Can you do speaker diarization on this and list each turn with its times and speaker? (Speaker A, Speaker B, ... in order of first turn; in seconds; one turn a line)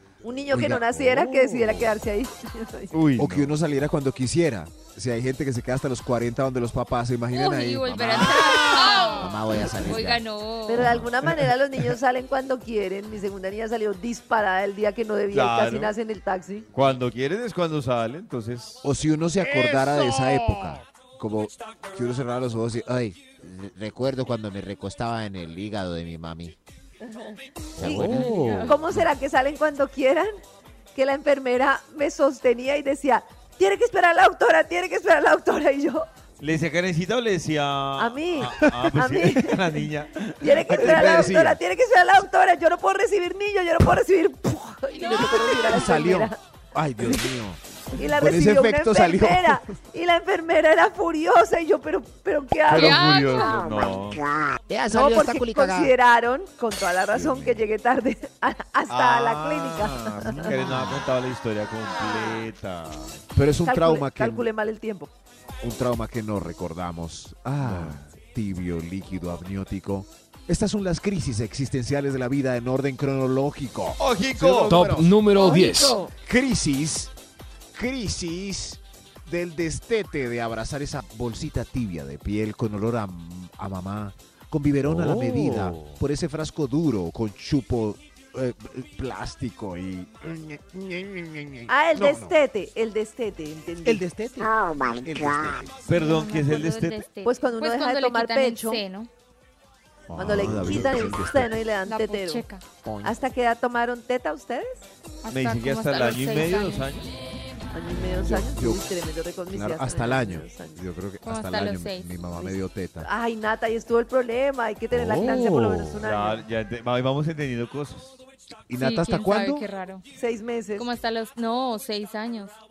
Speaker A: 0.2-2.9
Speaker B: 0.5-1.6
Speaker C: 2.9-3.6
Speaker B: 3.2-10.2
Speaker D: 7.3-10.9
Speaker A: 10.7-16.7
Speaker C: 15.3-15.9
Speaker C: 16.7-18.8
Speaker B: 18.8-26.6
Speaker E: 19.4-20.5
Speaker A: 27.0-30.3
Speaker F: 27.8-28.8
Speaker B: 27.8-28.3
Speaker D: 28.0-28.8
Speaker A: 30.9-36.1
Speaker C: 36.4-41.2
Speaker A: 38.0-39.6
Speaker B: 38.5-38.9
Speaker A: 40.4-46.4
Speaker B: 40.7-41.6
Speaker D: 45.0-45.2
Speaker B: 45.1-49.7
Speaker A: 48.0-53.2
Speaker C: 52.7-54.2
Speaker D: 52.7-53.6
Speaker E: 54.7-55.9
Speaker A: 54.9-60.5
Speaker B: 57.1-57.6
Speaker C: 58.9-63.2
Speaker B: 60.2-61.0
Speaker B: 63.3-64.5
Speaker A: 63.6-65.1
Speaker B: 65.6-75.2
Speaker C: 67.6-68.0
Speaker C: 74.0-74.8
Speaker F: 74.7-76.0
Speaker A: 75.4-76.1
Speaker E: 75.5-75.8
Speaker B: 76.1-77.1
Speaker B: 77.7-92.3
Speaker F: 84.8-86.0
Speaker A: 91.7-94.0
Speaker B: 93.8-95.8
Speaker C: 95.9-97.1
Speaker D: 95.9-99.1
Speaker A: 97.2-98.8
Speaker B: 100.1-101.5
Speaker A: 100.2-102.5
Speaker D: 101.8-102.7
Speaker B: 102.8-103.2
Speaker A: 103.0-104.9
Speaker D: 105.2-106.9
Speaker C: 105.3-107.1
Speaker A: 107.7-110.8
Speaker B: 108.2-108.9
Speaker B: 109.5-113.1
Speaker D: 111.2-112.1
Speaker A: 112.3-116.4
Speaker F: 114.9-116.0
Speaker C: 116.0-118.2
Speaker B: 118.7-119.7
Speaker D: 118.7-120.0
Speaker A: 120.2-120.9
Speaker D: 120.8-122.5